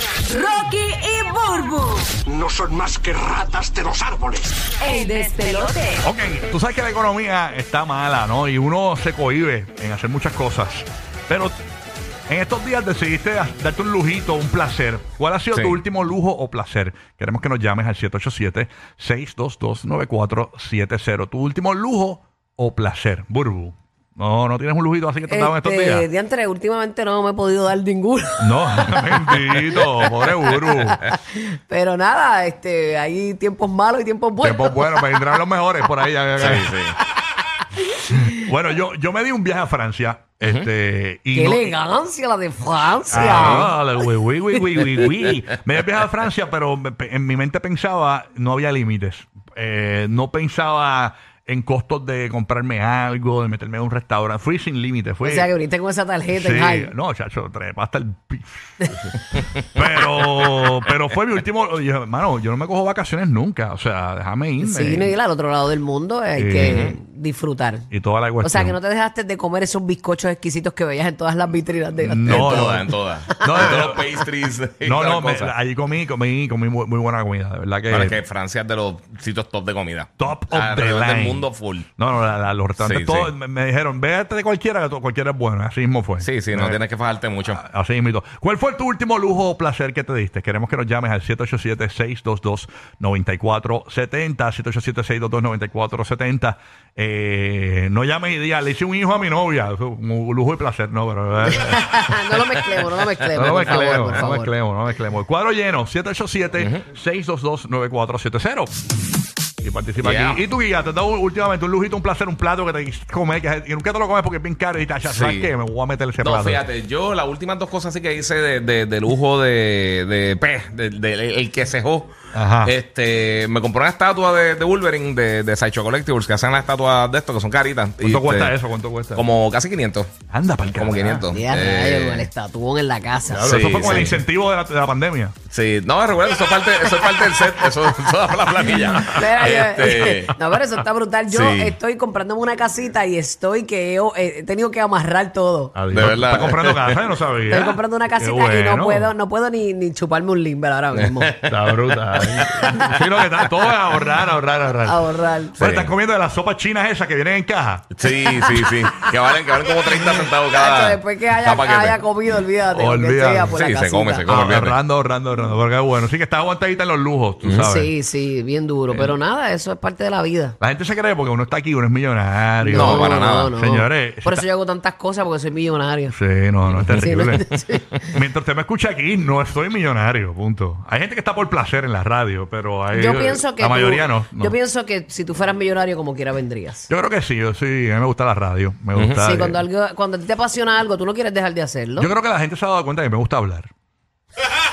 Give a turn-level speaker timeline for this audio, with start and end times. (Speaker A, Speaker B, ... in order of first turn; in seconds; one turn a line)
Speaker A: 0.3-2.1
Speaker B: 2.3-4.5
Speaker A: 4.8-6.1
Speaker C: 6.0-11.6
Speaker C: 12.3-26.1
Speaker D: 15.5-15.8
Speaker E: 25.3-35.0
Speaker C: 28.4-31.0
Speaker C: 34.4-37.2
Speaker D: 36.4-37.0
Speaker C: 37.9-41.7
Speaker E: 41.3-43.8
Speaker C: 43.1-55.5
Speaker D: 43.3-43.7
Speaker E: 55.2-56.9
Speaker C: 56.3-59.1
Speaker C: 59.7-65.1
Speaker E: 64.6-67.9
Speaker C: 66.3-66.9
Speaker D: 66.6-67.0
Speaker C: 67.9-68.8
Speaker E: 68.4-73.8
Speaker C: 72.0-74.0
Speaker D: 72.3-75.5
Speaker C: 74.8-78.2
Speaker D: 77.9-81.9
Speaker C: 80.2-81.5
Speaker C: 82.0-86.8
Speaker D: 82.8-83.3
Speaker D: 86.2-87.6
Speaker C: 87.5-102.1
Speaker E: 101.6-104.5
Speaker C: 103.3-108.7
Speaker C: 109.6-116.6
Speaker D: 110.0-110.4
Speaker D: 115.1-115.5
Speaker D: 116.2-122.1
Speaker C: 122.3-122.7
Speaker D: 122.6-128.5
Speaker C: 128.0-129.3
Speaker D: 129.2-130.1
Speaker C: 130.3-131.2
Speaker D: 130.8-132.3
Speaker E: 131.3-134.1
Speaker C: 133.3-135.3
Speaker D: 133.4-134.2
Speaker D: 135.5-140.4
Speaker E: 138.9-145.8
Speaker D: 141.3-141.8
Speaker C: 145.8-149.1
Speaker D: 145.9-147.1
Speaker E: 147.5-151.3
Speaker D: 150.9-153.1
Speaker C: 151.5-157.9
Speaker E: 154.8-155.6
Speaker D: 155.6-155.9
Speaker D: 157.9-162.0
Speaker E: 160.5-164.2
Speaker C: 162.7-163.5
Speaker D: 163.5-164.8
Speaker C: 164.3-167.9
Speaker E: 167.6-170.6
Speaker C: 170.6-174.4
Speaker E: 172.6-176.2
Speaker D: 172.7-173.5
Speaker C: 176.1-177.5
Speaker E: 177.0-178.1
Speaker C: 178.0-184.6
Speaker E: 182.9-186.9
Speaker C: 186.9-189.6
Speaker D: 189.0-189.2
Speaker E: 189.2-192.1
Speaker C: 192.0-193.7